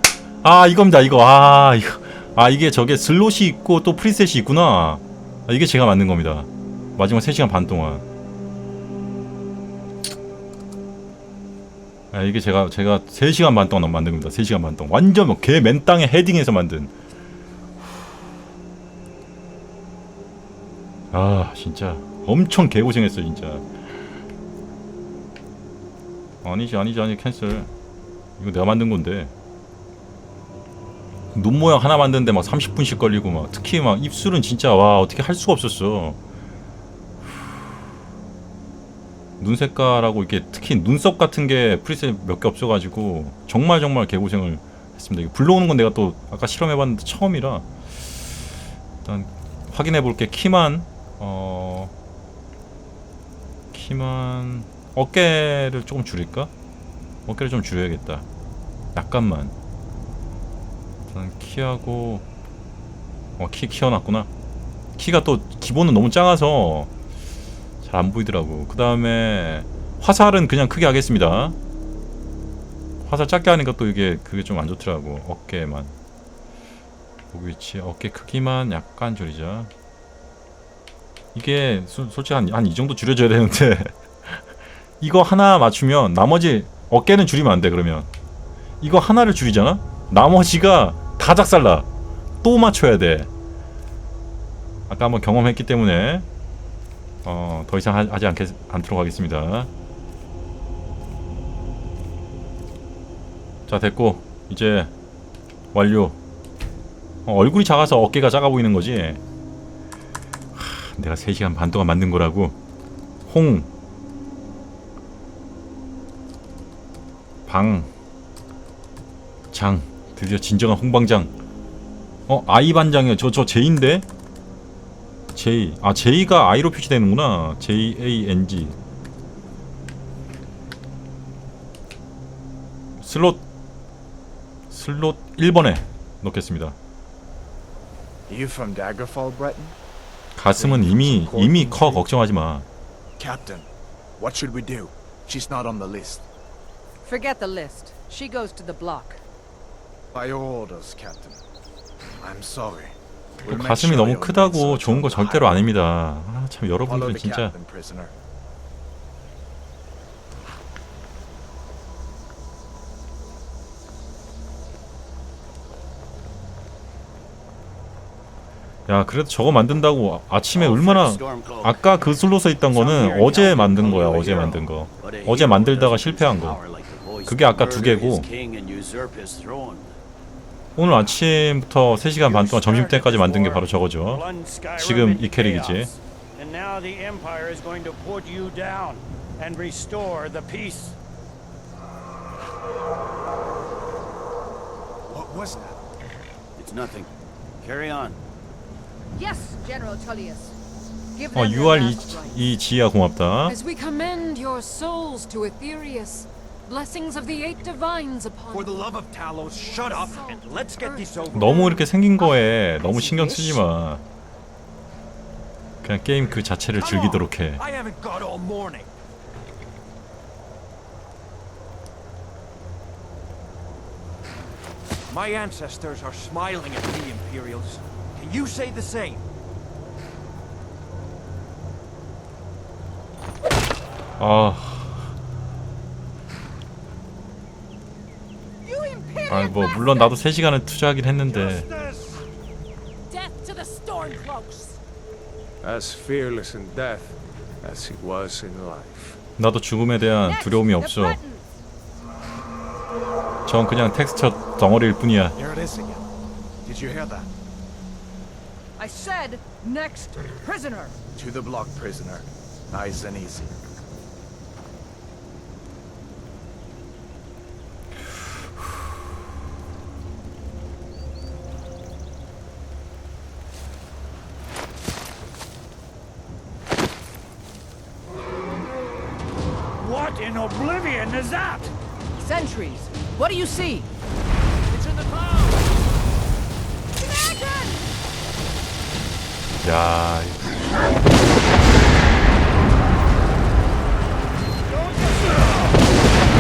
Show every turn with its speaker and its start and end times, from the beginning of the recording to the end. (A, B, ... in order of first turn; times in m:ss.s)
0:00.4-0:08.0 A
0:12.1-0:16.9 A
0:21.1-0:23.7 A
0:26.4-0:27.7 A
0:28.4-0:29.3 A
0:31.3-0:36.2 A
0:39.4-0:47.7 A
0:49.0-0:51.9 A
0:53.7-0:56.5 A
0:57.3-0:58.3 A
0:58.9-0:59.5 A
1:01.1-1:02.3 A
1:03.4-1:04.3 A
1:05.0-1:06.9 A
1:07.8-1:11.6 A
1:13.0-1:16.0 A
1:17.3-1:19.7 A
1:21.3-1:24.4 A
1:25.0-1:28.1 A
1:28.8-1:31.9 A
1:32.4-1:33.3 A
1:34.9-1:36.3 A
1:37.2-1:39.7 A
1:43.7-1:44.9 A
1:45.7-1:46.2 A
1:47.3-1:49.2 A
1:50.6-1:52.6 A
1:53.3-1:53.7 A
1:57.5-1:57.9 A
1:59.5-2:01.3 A
2:02.3-2:04.0 A
2:05.3-2:08.8 A
2:13.0-2:13.4 A
2:14.7-2:16.8 A
2:18.3-2:19.8 B
2:20.4-2:22.7 A
2:20.6-2:22.0 B
2:23.2-2:26.3 B
2:27.0-2:29.2 C
2:30.1-2:31.4 B
2:32.2-2:35.7 B
2:33.4-2:37.5 A
2:36.8-2:38.1 B
2:48.9-2:56.6 A
2:50.5-2:52.0 D
2:52.7-2:59.9 D
2:57.3-2:58.3 A
3:00.8-3:04.3 A
3:02.2-3:11.0 D
3:04.8-3:05.9 A
3:15.1-3:15.8 B
3:16.6-3:18.2 D
3:19.1-3:20.6 C
3:21.2-3:22.4 C
3:21.3-3:23.6 A
3:23.4-3:31.1 E
3:28.5-3:31.8 F
3:31.3-3:34.0 A
3:33.0-3:33.3 F
3:33.1-3:33.6 E
3:35.8-3:37.6 A
3:36.8-3:38.9 F
3:45.1-3:49.2 F
3:54.2-3:55.1 A
3:58.6-4:00.3 C
3:59.3-4:01.7 A
4:01.3-4:02.2 F
4:03.1-4:04.8 C
4:05.6-4:09.2 G
4:09.4-4:11.2 A
4:10.2-4:11.5 C
4:13.5-4:15.4 A
4:15.4-4:16.1 B
4:16.6-4:17.3 B
4:18.8-4:21.0 C
4:21.2-4:23.5 B
4:39.8-4:41.7 D
4:42.2-4:43.9 C
4:47.0-4:47.9 C
4:49.5-4:50.4 A